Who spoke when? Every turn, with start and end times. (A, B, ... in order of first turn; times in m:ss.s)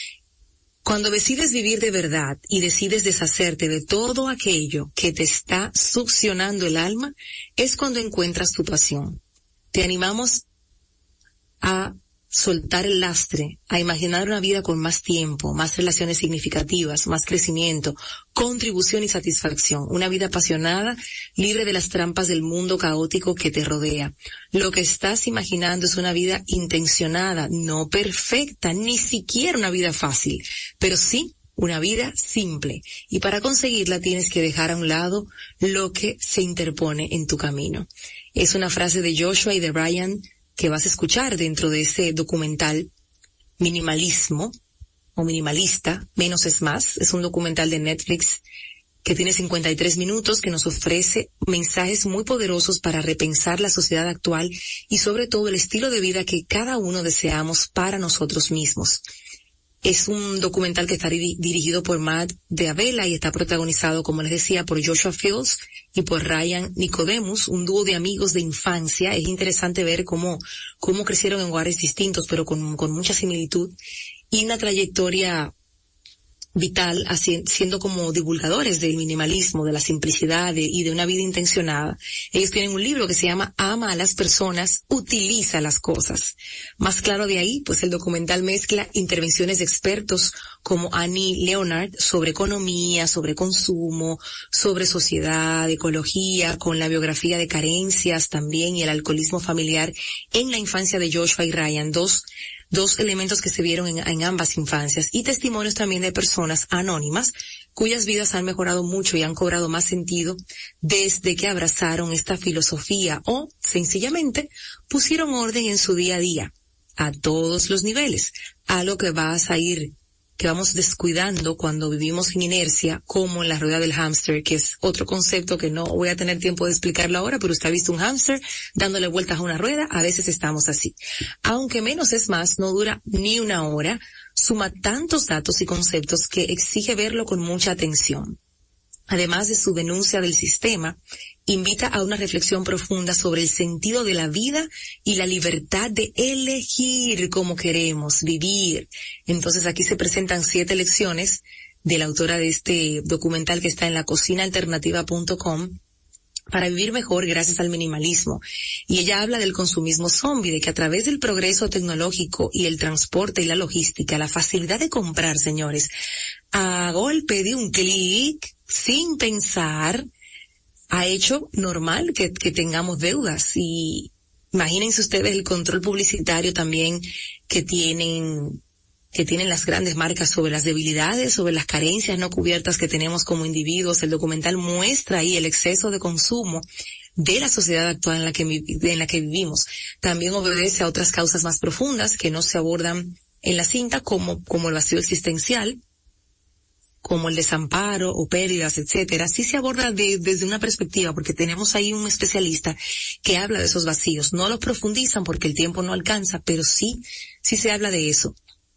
0:00.8-0:09.2 A
0:09.7-0:10.4 A
0:11.6-0:42.9 A
0:43.6-0:44.5 A
0:45.2-0:48.4 A
0:49.0-0:59.0 A
0:59.8-1:13.7 A
1:14.3-1:15.5 A
1:16.6-2:18.4 A
2:19.1-2:35.8 A
2:36.5-2:45.9 A
2:46.5-2:50.1 A
2:50.9-2:58.6 A
2:59.1-3:06.6 A
3:07.2-3:15.8 A
3:17.0-3:28.4 A